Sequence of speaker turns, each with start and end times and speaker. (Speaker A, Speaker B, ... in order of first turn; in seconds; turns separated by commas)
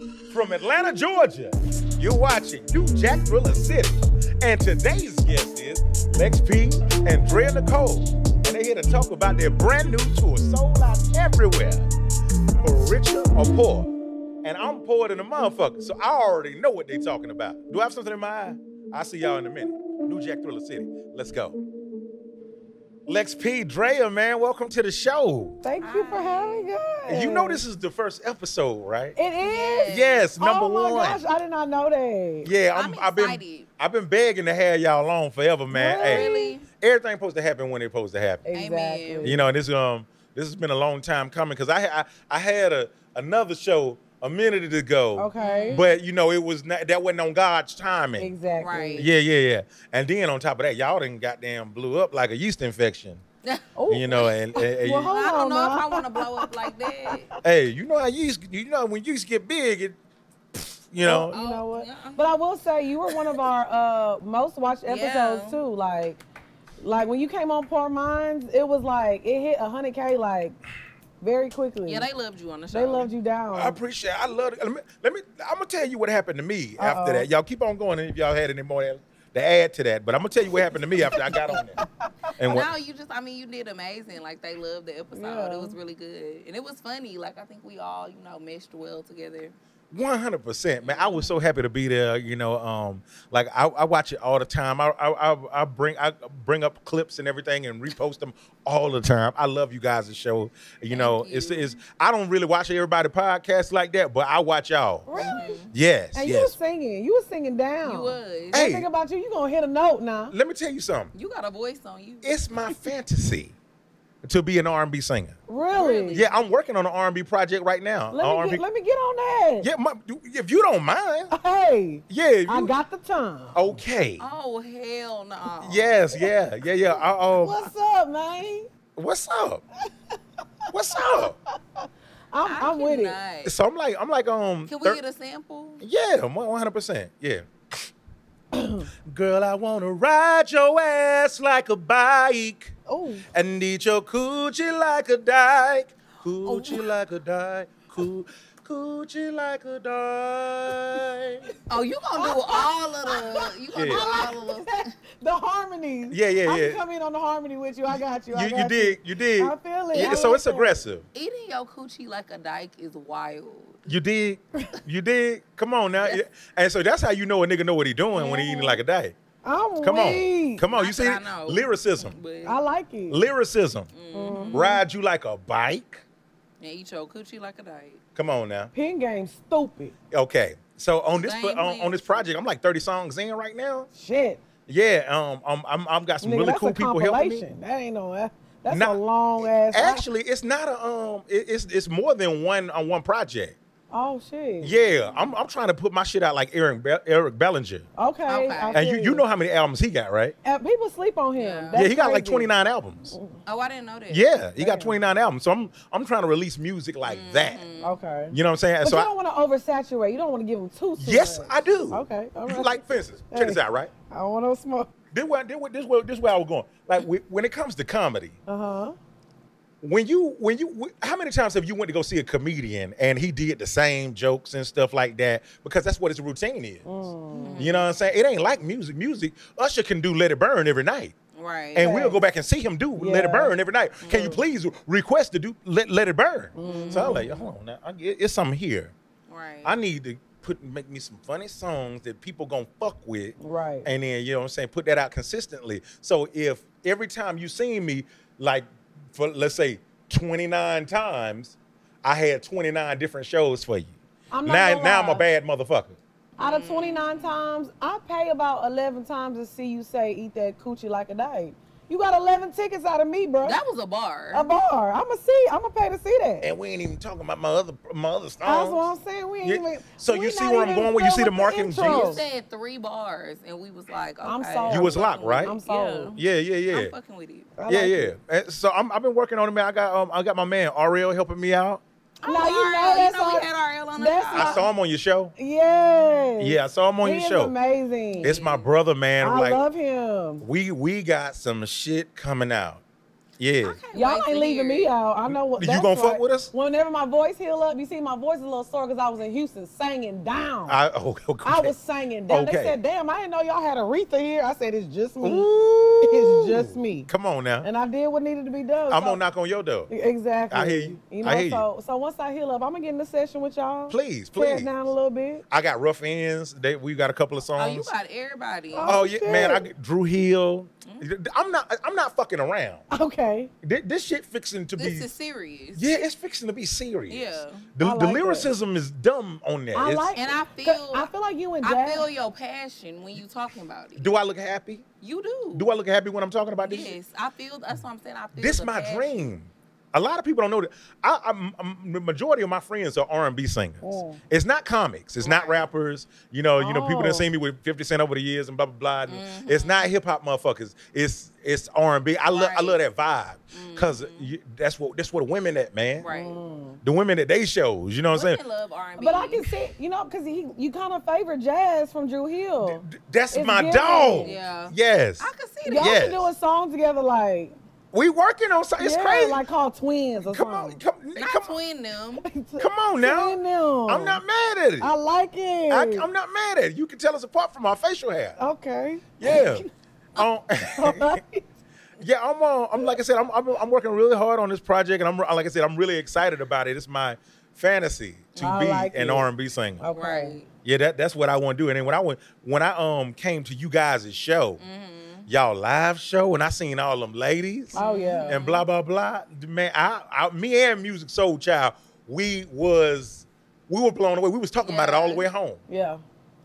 Speaker A: 0.3-11.9, Speaker A: 12.6-13.9, Speaker A: 14.4-21.6, Speaker A: 23.1-25.6, Speaker B: 25.6-27.6, Speaker C: 25.8-26.7, Speaker A: 27.1-29.2, Speaker B: 29.1-32.5, Speaker C: 29.4-30.3, Speaker A: 29.9-31.2, Speaker A: 32.4-38.5, Speaker C: 32.7-33.7, Speaker B: 35.7-36.6, Speaker C: 36.0-36.7, Speaker B: 38.5-39.4, Speaker C: 38.5-39.4, Speaker A: 39.2-48.3, Speaker B: 45.2-45.8, Speaker C: 45.4-46.0, Speaker B: 48.2-49.1, Speaker C: 48.6-49.1, Speaker A: 49.0-53.2, Speaker C: 53.4-54.3, Speaker B: 53.8-57.4, Speaker A: 53.9-55.1, Speaker C: 55.0-57.3, Speaker A: 57.4-60.0, Speaker A: 60.6-61.3, Speaker B: 61.0-66.2, Speaker C: 61.3-62.2, Speaker C: 64.9-65.6, Speaker B: 66.8-70.6, Speaker B: 71.2-72.1, Speaker C: 71.8-73.1, Speaker B: 72.7-73.8, Speaker A: 73.5-81.8, Speaker B: 76.8-77.3, Speaker B: 81.1-81.6, Speaker A: 82.4-82.7, Speaker C: 82.4-89.6, Speaker B: 85.1-85.8, Speaker A: 89.9-106.6, Speaker C: 90.8-91.3, Speaker C: 100.9-101.8, Speaker B: 105.1-105.6, Speaker C: 105.2-105.7, Speaker B: 106.1-110.3, Speaker C: 107.8-108.6, Speaker A: 108.5-108.9, Speaker A: 110.3-111.1, Speaker C: 111.1-112.3, Speaker A: 112.2-113.6, Speaker A: 114.2-115.4, Speaker B: 115.5-116.2, Speaker C: 115.7-116.4, Speaker A: 116.1-118.6, Speaker B: 118.1-119.7, Speaker A: 119.6-121.3, Speaker B: 121.3-123.6, Speaker A: 122.1-122.7, Speaker A: 123.5-124.2, Speaker C: 124.2-126.0, Speaker A: 125.6-127.7, Speaker B: 126.9-128.7, Speaker A: 129.0-129.6, Speaker B: 130.1-133.2, Speaker A: 130.7-131.4, Speaker C: 132.4-133.6, Speaker A: 133.4-135.0, Speaker C: 134.7-135.8, Speaker A: 135.8-137.5, Speaker B: 138.5-138.9, Speaker A: 139.1-142.8, Speaker B: 142.9-143.2, Speaker A: 143.3-151.5, Speaker C: 146.4-146.9, Speaker C: 151.7-154.9, Speaker B: 152.1-160.8, Speaker A: 153.7-154.0, Speaker A: 156.1-156.8, Speaker A: 158.3-161.1, Speaker C: 159.9-160.3, Speaker C: 161.1-163.8, Speaker A: 163.9-169.2, Speaker B: 168.1-168.8, Speaker B: 169.4-170.6, Speaker A: 169.8-172.2, Speaker C: 170.7-172.6, Speaker B: 172.4-173.2, Speaker A: 173.1-173.9, Speaker C: 173.9-174.7, Speaker B: 174.1-174.8, Speaker A: 174.5-176.0, Speaker C: 176.6-178.0, Speaker A: 178.2-178.7, Speaker B: 178.7-179.9, Speaker A: 180.1-183.9, Speaker C: 181.2-182.3, Speaker B: 183.9-184.4, Speaker A: 184.7-187.4, Speaker B: 186.2-190.1, Speaker A: 188.7-193.6, Speaker B: 193.9-194.8, Speaker A: 194.6-197.9, Speaker B: 198.0-199.2, Speaker C: 198.3-198.8, Speaker A: 198.7-200.3, Speaker B: 200.4-202.5, Speaker C: 201.4-201.8, Speaker A: 201.8-203.2, Speaker B: 203.1-203.4, Speaker C: 203.5-204.2, Speaker A: 204.1-207.6, Speaker B: 204.6-205.0, Speaker C: 207.1-208.0, Speaker B: 207.8-214.9, Speaker A: 208.3-209.1, Speaker A: 211.0-213.9, Speaker A: 215.1-218.4, Speaker B: 218.5-219.0, Speaker A: 219.8-226.9, Speaker B: 226.8-227.7, Speaker C: 227.3-227.9, Speaker A: 227.6-231.2, Speaker C: 231.3-232.1, Speaker A: 231.7-238.9, Speaker B: 231.8-232.2, Speaker B: 233.0-233.6, Speaker C: 234.0-234.4, Speaker B: 236.6-237.3, Speaker C: 236.6-237.4, Speaker C: 239.3-239.7, Speaker A: 239.6-256.0, Speaker B: 243.4-243.9, Speaker B: 254.3-255.2, Speaker B: 256.4-263.6, Speaker C: 256.4-257.3, Speaker C: 263.4-264.5, Speaker B: 264.3-266.5, Speaker A: 266.4-268.9, Speaker B: 268.4-272.2, Speaker A: 269.4-272.2, Speaker C: 271.8-277.5, Speaker B: 274.2-276.2, Speaker A: 274.7-275.5, Speaker A: 276.2-276.9, Speaker B: 277.6-278.1, Speaker A: 277.7-281.8, Speaker C: 282.2-284.7, Speaker B: 282.2-284.6, Speaker A: 284.3-285.3, Speaker B: 285.4-288.3, Speaker C: 285.7-286.2, Speaker A: 286.4-287.5, Speaker C: 288.1-288.7, Speaker A: 288.2-289.6, Speaker B: 289.2-290.4, Speaker A: 290.4-292.8, Speaker A: 293.4-293.8, Speaker C: 293.6-294.9, Speaker B: 293.9-300.8, Speaker A: 295.3-296.5, Speaker A: 300.7-301.8, Speaker B: 301.4-305.5, Speaker A: 302.3-302.8, Speaker A: 305.2-307.7, Speaker B: 306.0-307.1, Speaker B: 307.6-309.2, Speaker A: 308.9-309.9, Speaker B: 309.9-315.4, Speaker A: 310.5-311.7, Speaker A: 313.9-314.7, Speaker A: 315.5-317.9, Speaker C: 317.6-318.9, Speaker B: 318.7-319.7, Speaker A: 318.8-322.9, Speaker B: 322.9-323.5, Speaker A: 323.6-325.1, Speaker C: 324.8-325.8, Speaker A: 325.8-330.1, Speaker C: 327.1-327.7, Speaker B: 327.8-328.5, Speaker B: 329.7-332.1, Speaker C: 330.1-331.1, Speaker C: 331.6-334.1, Speaker A: 334.0-334.9, Speaker C: 335.0-335.7, Speaker A: 335.6-337.0, Speaker C: 336.6-339.3, Speaker A: 338.4-356.1, Speaker B: 343.8-344.2, Speaker C: 345.2-345.7, Speaker B: 346.6-347.3, Speaker C: 349.1-349.9, Speaker C: 352.3-352.8, Speaker C: 353.5-354.3, Speaker C: 356.0-356.4, Speaker B: 356.1-356.8, Speaker A: 356.8-358.4, Speaker C: 358.1-359.5, Speaker B: 359.0-364.4, Speaker A: 362.6-366.3, Speaker C: 364.2-366.0, Speaker B: 365.6-367.5, Speaker A: 367.9-369.4, Speaker B: 368.8-370.8, Speaker A: 370.2-371.6, Speaker C: 371.2-372.3, Speaker B: 372.2-374.2, Speaker A: 372.6-374.9, Speaker B: 374.8-376.1, Speaker A: 375.7-378.4, Speaker B: 378.4-379.7, Speaker A: 379.2-381.2, Speaker B: 380.8-381.4, Speaker A: 382.0-389.8, Speaker C: 388.4-388.6, Speaker B: 388.4-389.3, Speaker B: 389.8-390.4, Speaker C: 389.9-390.5, Speaker A: 390.6-394.6, Speaker C: 394.6-395.3, Speaker A: 395.3-405.6, Speaker B: 397.7-398.4, Speaker C: 397.8-398.7, Speaker C: 404.6-405.3, Speaker B: 405.7-406.0